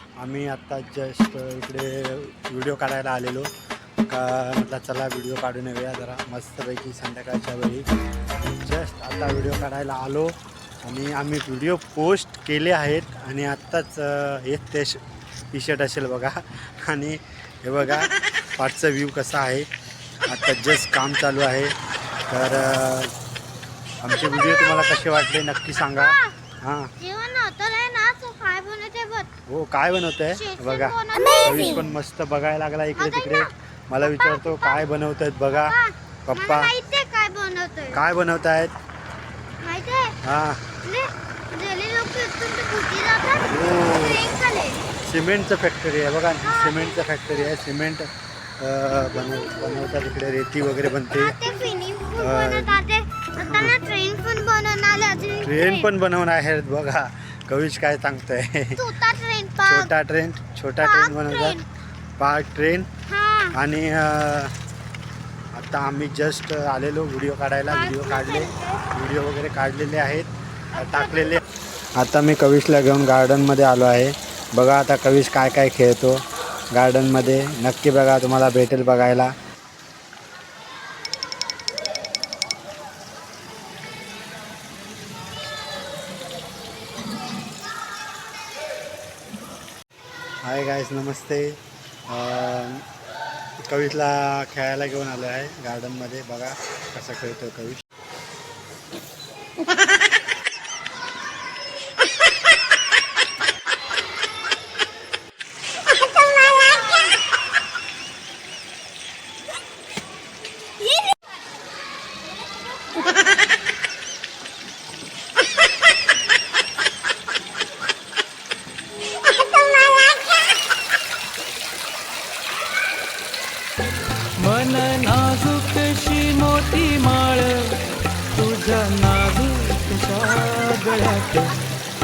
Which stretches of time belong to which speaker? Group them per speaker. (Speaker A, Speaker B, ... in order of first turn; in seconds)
Speaker A: 0.2-3.5, 4.1-7.8, 8.6-10.3, 10.8-19.7, 20.3-21.7, 22.3-23.1, 24.0-26.9, 29.5-35.8, 36.3-36.7, 37.9-38.7, 40.2-40.6, 43.5-44.2, 45.0-51.4, 52.2-52.8, 53.4-53.8, 55.4-58.9, 59.6-61.6, 62.2-62.9, 63.5-64.5, 65.5-71.4, 72.0-76.2, 76.7-79.3, 90.4-92.9, 93.6-97.8
Speaker B: 24.1-25.1, 25.9-26.3, 27.0-29.3, 30.3-31.9, 33.0-34.9, 35.5-38.0, 39.6-40.2, 40.8-44.8, 46.4-47.6, 51.1-55.9, 58.8-59.9, 60.8-61.6, 63.1-63.5, 67.7-68.9, 70.7-71.4
Speaker C: 124.4-131.6